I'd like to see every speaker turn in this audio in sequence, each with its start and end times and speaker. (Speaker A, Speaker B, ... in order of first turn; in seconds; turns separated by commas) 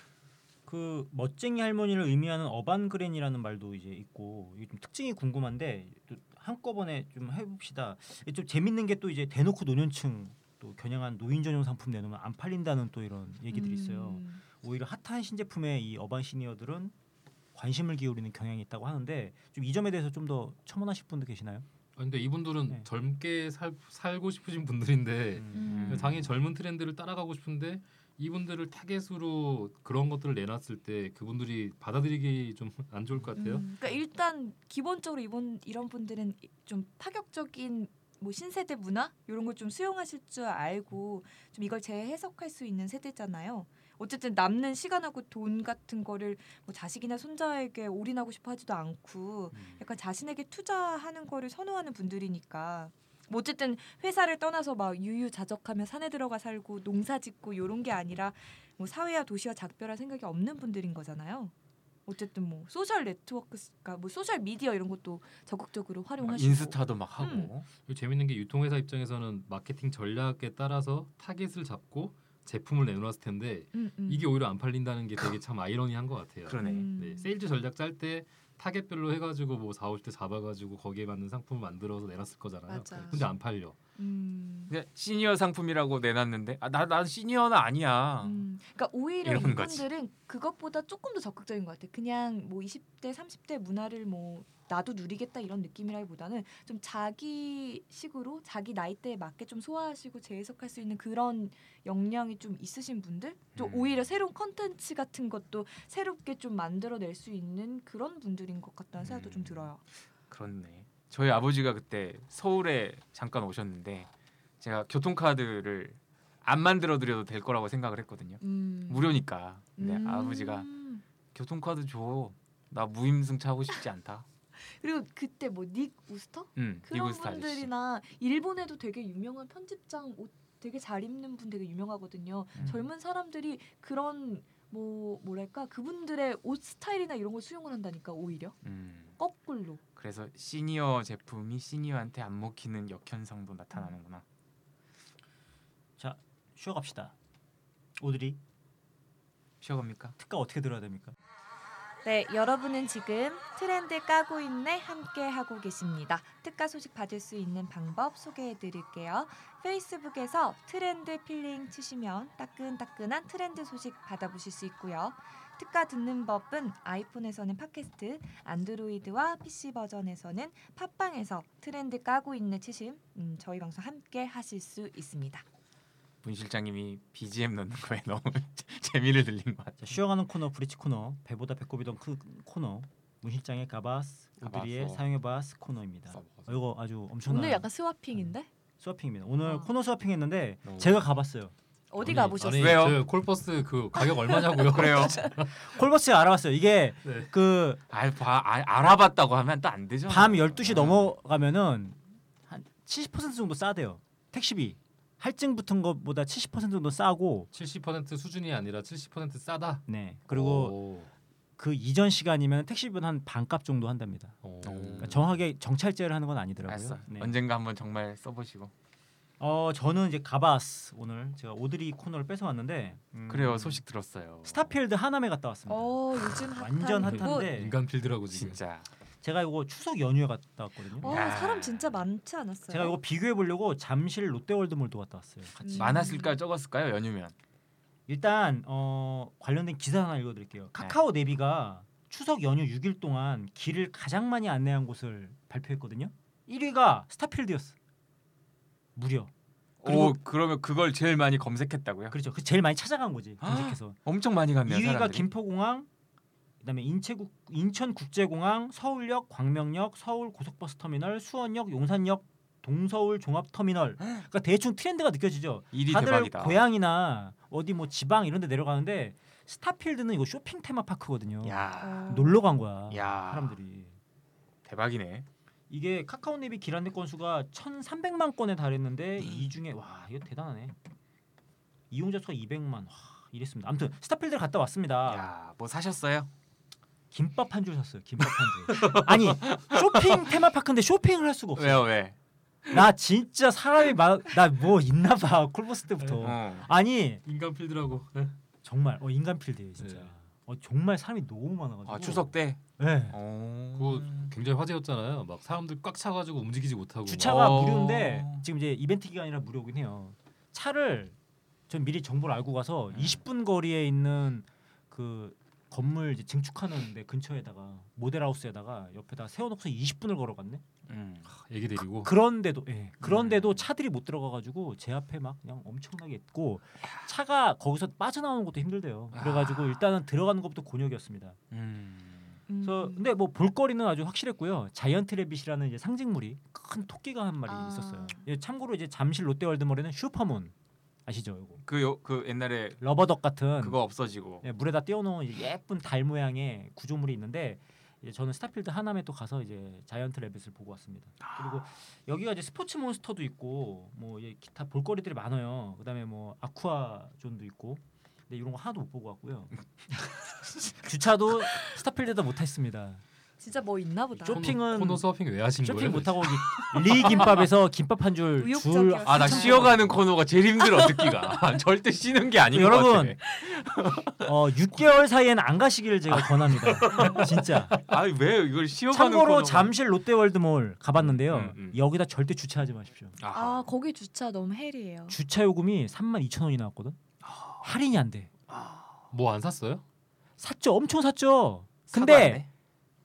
Speaker A: 0.7-16.9, Speaker B: 13.5-14.4, Speaker A: 17.5-21.6, Speaker C: 21.9-33.7, Speaker A: 25.4-25.6, Speaker D: 25.5-26.3, Speaker B: 25.5-26.1, Speaker B: 33.3-61.5, Speaker D: 49.5-49.8, Speaker B: 62.0-67.5, Speaker D: 66.2-67.7, Speaker C: 67.8-83.8, Speaker B: 73.7-74.3, Speaker D: 76.5-76.9, Speaker B: 76.5-77.3, Speaker B: 82.7-83.3, Speaker B: 84.0-84.7, Speaker D: 84.7-88.4, Speaker B: 88.2-109.8, Speaker D: 89.2-89.9, Speaker D: 103.5-104.1, Speaker D: 109.0-109.7, Speaker D: 110.3-120.7, Speaker B: 118.4-121.0, Speaker D: 121.3-124.2, Speaker B: 124.6-138.6, Speaker D: 126.5-127.7, Speaker D: 132.5-132.8, Speaker D: 138.6-139.2, Speaker B: 139.2-139.8, Speaker D: 139.9-144.2, Speaker A: 146.0-147.1, Speaker A: 148.0-148.4, Speaker D: 149.6-150.2, Speaker A: 150.2-151.1, Speaker B: 152.0-175.4, Speaker D: 176.2-179.9, Speaker A: 179.8-191.5, Speaker D: 184.4-185.0, Speaker D: 186.1-186.5, Speaker B: 187.2-188.5, Speaker B: 189.4-189.7, Speaker D: 190.6-191.1, Speaker B: 191.9-192.9, Speaker C: 192.0-195.5, Speaker D: 192.4-193.0, Speaker B: 193.9-195.4, Speaker D: 194.6-195.2, Speaker A: 195.4-197.8, Speaker C: 197.0-197.3, Speaker D: 197.9-201.1, Speaker A: 200.1-207.5, Speaker C: 207.5-211.1, Speaker A: 209.9-210.8, Speaker A: 211.6-214.3, Speaker C: 214.4-215.3, Speaker D: 214.6-215.3, Speaker A: 215.0-217.3, Speaker D: 216.7-218.7, Speaker A: 219.4-223.8, Speaker D: 223.3-224.8, Speaker A: 224.4-227.8, Speaker B: 225.7-227.5, Speaker C: 227.0-228.6, Speaker D: 228.3-228.9, Speaker A: 229.2-231.3, Speaker B: 231.0-233.0, Speaker D: 231.0-232.1, Speaker A: 232.7-236.2, Speaker B: 235.6-236.4, Speaker D: 235.7-237.3, Speaker A: 238.1-247.8, Speaker A: 248.9-249.3, Speaker D: 249.8-252.2, Speaker A: 249.8-250.2, Speaker A: 252.1-254.0, Speaker D: 253.4-255.3, Speaker A: 254.6-255.9, Speaker A: 256.6-273.9, Speaker D: 265.7-266.6, Speaker D: 271.4-273.6, Speaker B: 271.8-272.6, Speaker D: 274.6-275.2, Speaker A: 275.7-280.8, Speaker A: 281.9-285.3, Speaker D: 285.1-286.3, Speaker A: 287.1-291.9, Speaker D: 288.7-290.2, Speaker D: 291.6-292.1, Speaker A: 292.7-297.2, Speaker C: 296.0-296.3, Speaker D: 296.2-296.7, Speaker C: 297.2-298.4, Speaker A: 298.6-303.2, Speaker C: 299.8-300.1, Speaker D: 301.9-304.3, Speaker C: 303.7-307.4, Speaker A: 307.1-311.1, Speaker D: 307.2-308.4, Speaker A: 311.7-320.6, Speaker D: 312.9-313.2, Speaker D: 320.9-321.3, Speaker C: 321.4-322.1, Speaker A: 322.0-331.4, Speaker D: 323.0-323.7, Speaker D: 329.1-329.8, Speaker D: 331.5-332.4, Speaker B: 332.5-333.1, Speaker A: 332.6-340.5, Speaker B: 337.4-338.3, Speaker A: 341.1-341.6, Speaker D: 341.6-342.8, Speaker A: 342.8-343.8, Speaker D: 343.6-344.4, Speaker A: 344.4-359.5, Speaker D: 351.2-351.6, Speaker A: 360.8-363.0, Speaker B: 363.4-364.4, Speaker A: 364.1-365.1, Speaker C: 364.2-366.4, Speaker A: 365.6-370.0, Speaker B: 366.9-367.4, Speaker B: 368.4-369.8, Speaker D: 369.0-374.3, Speaker B: 370.6-371.4, Speaker A: 372.5-373.2, Speaker A: 374.2-377.8, Speaker D: 376.1-379.7, Speaker B: 376.9-377.2, Speaker A: 378.9-383.2, Speaker D: 380.9-381.8, Speaker D: 383.2-383.7, Speaker B: 383.3-385.2, Speaker A: 385.1-387.0, Speaker D: 387.2-387.7, Speaker A: 387.6-388.3, Speaker D: 388.5-389.1, Speaker C: 389.1-389.8, Speaker A: 390.4-392.4, Speaker D: 391.9-392.5